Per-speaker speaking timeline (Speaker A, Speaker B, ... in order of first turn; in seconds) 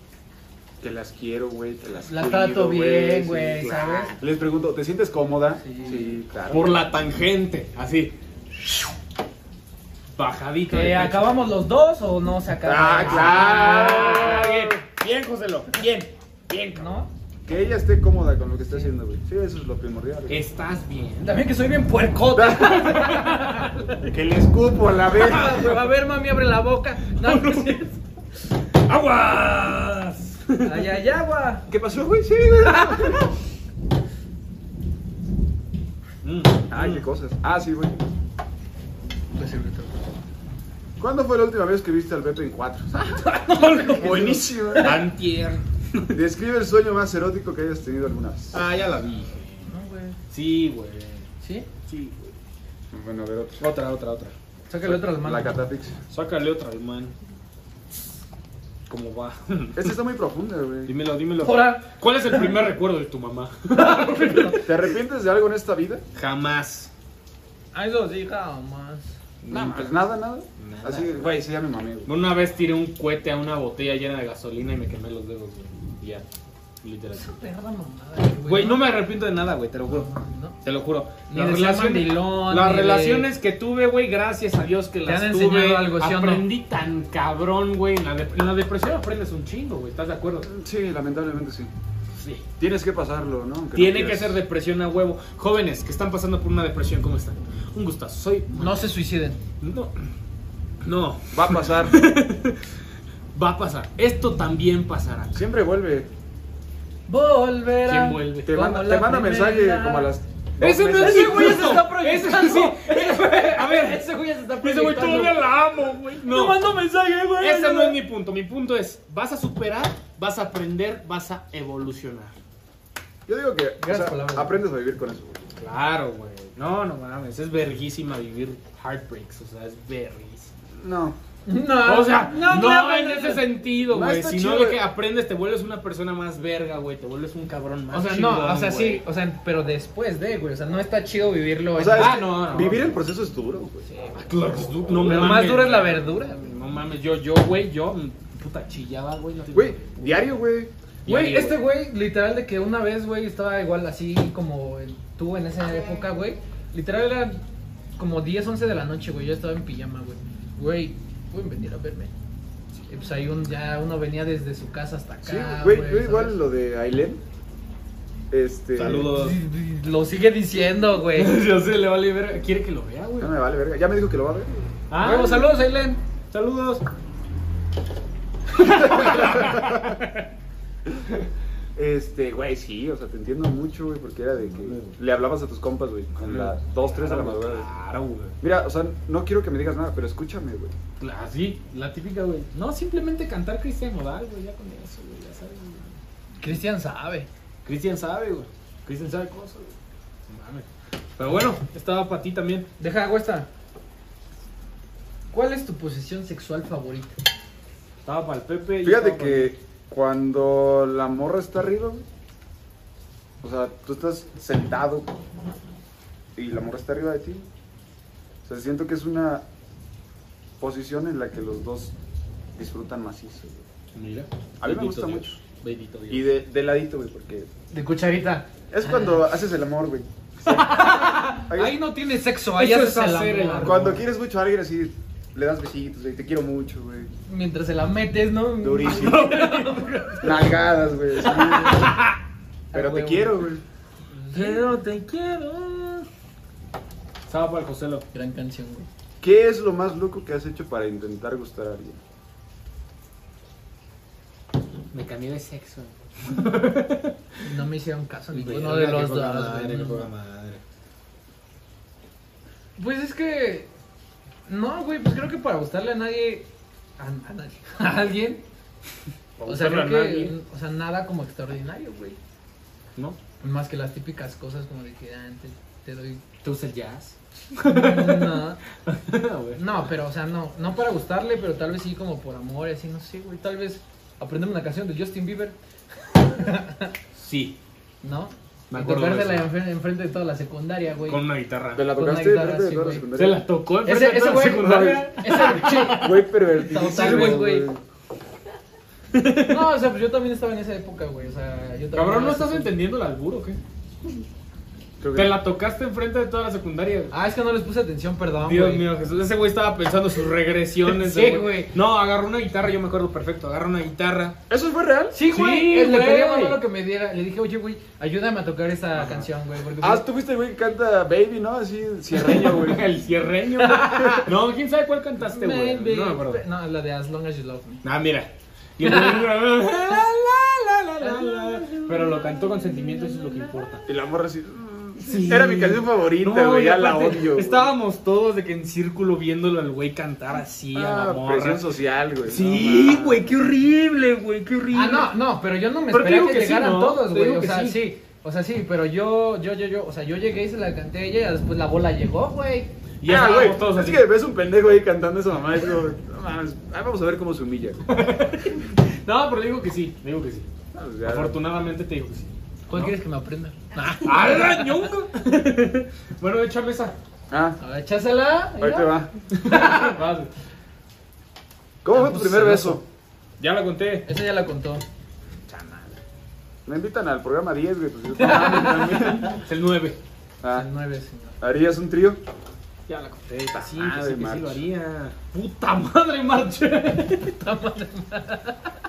Speaker A: 0.8-6.8, 12.6-14.7, 17.4-20.4, 22.3-23.0, 24.0-25.7, 31.7-33.3, 36.7-38.1, 41.0-44.9, 46.0-48.6, 52.9-53.6, 54.8-56.0, 59.7-60.9, 64.6-66.0, 69.5-72.1, 90.4-91.7, 92.6-94.4, 101.3-102.0, 105.3-106.1, 108.5-111.7, 123.3-125.4, 130.8-131.2, 133.9-134.8, 141.8-143.8, 149.5-150.7, 165.2-167.2, 168.3-169.1, 173.2-174.7, 178.8-179.9, 181.8-187.7, 188.4-190.7, 208.8-212.0, 213.4-215.1, 216.3-217.5, 218.4-219.4, 220.6-221.9, 222.6-223.6, 224.6-225.4, 226.1-227.5, 228.7-230.8, 231.4-231.8, 233.6-237.1, 238.6-239.3, 240.2-241.9, 242.7-243.6, 249.2-252.0, 291.7-293.4, 294.6-295.1, 295.7-297.8, 305.0-305.4, 314.5-315.2, 319.8-322.8, 333.8-337.7, 340.7-343.2, 353.0-357.9, 360.7-361.4, 367.3-367.6, 368.6-369.1, 371.8-372.8, 375.5-376.0, 376.6-379.4, 381.4-382.2, 383.5-384.6
Speaker B: 2.0-4.2, 5.6-6.2, 10.7-14.6, 16.7-17.1, 21.2-24.1, 25.1-28.0, 30.6-31.7, 32.6-33.2, 39.3-39.9, 43.2-45.1, 49.6-50.2, 51.4-51.7, 54.7-55.5, 61.4-61.9, 63.7-64.7, 67.7-69.1, 77.1-78.9, 79.9-80.6, 81.3-83.3, 85.0-86.5, 98.5-99.4, 107.1-110.1, 110.9-115.5, 116.2-118.0, 123.8-124.5, 131.4-133.5, 137.9-142.3, 143.8-144.2, 145.0-146.4, 151.1-157.4, 158.0-162.1, 162.9-166.4, 169.1-171.4, 175.0-176.0, 196.4-197.3, 202.8-203.5, 205.3-207.2, 227.7-229.2, 230.5-233.9, 237.3-240.5, 241.3-241.8, 242.7-243.5, 244.1-244.7, 248.1-248.9, 257.4-260.1, 262.8-263.7, 264.5-268.4, 269.4-272.2, 273.4-276.3, 277.6-278.6, 279.5-286.9, 288.0-291.2, 291.9-293.1, 293.8-297.7, 299.5-302.7, 307.1-308.9, 310.9-311.7, 315.1-320.0, 323.6-324.3, 325.2-327.8, 328.8-329.8, 331.0-332.2, 344.7-352.7, 362.7-364.8, 367.6-370.0, 371.9-372.8, 374.1-374.8, 378.2-379.3, 380.5-381.3, 387.2-388.6
Speaker C: 3.6-4.2, 6.5-8.9, 10.1-11.4, 13.0-17.0, 20.3-21.3, 22.9-23.4, 27.1-27.8, 28.7-30.9, 36.2-37.0, 43.8-44.2, 44.8-45.6, 48.5-49.5, 50.3-51.3, 51.9-52.3, 53.6-54.3, 56.1-57.1, 58.9-59.9, 60.9-64.6, 66.1-66.9, 69.4-69.9, 70.6-71.3, 72.0-76.2, 76.8-77.4, 78.4-90.5, 92.2-92.4, 93.7-98.9, 99.6-100.1, 100.8-102.8, 103.3-105.4, 107.8-108.5, 110.6-116.6, 117.4-122.3, 125.5-130.5, 131.8-139.0, 141.9-142.9, 144.1-150.2, 151.0-151.6, 168.7-169.4, 171.1-173.3, 174.9-175.6, 176.3-176.8, 178.6-180.2, 184.5-185.0, 186.2-188.4, 191.0-196.0, 197.6-199.7, 200.3-202.7, 208.0-209.5, 223.9-226.3, 232.5-234.0, 238.8-240.5, 241.2-242.2, 244.3-246.1, 247.3-248.0, 254.9-257.2, 258.3-260.6, 269.4-270.3, 276.4-279.6, 287.1-287.6, 288.7-289.5, 291.1-291.9, 293.1-297.6, 299.1-299.7, 301.9-303.6, 305.1-307.1, 308.4-314.4, 315.2-316.6, 319.0-319.2, 322.1-326.4, 327.8-333.9, 335.0-341.7, 342.2-345.1, 345.9-347.8, 353.0-354.1, 357.9-360.5, 361.0-362.9, 363.8-366.9, 369.3-370.3, 373.4-374.1, 379.4-380.0, 382.9-387.4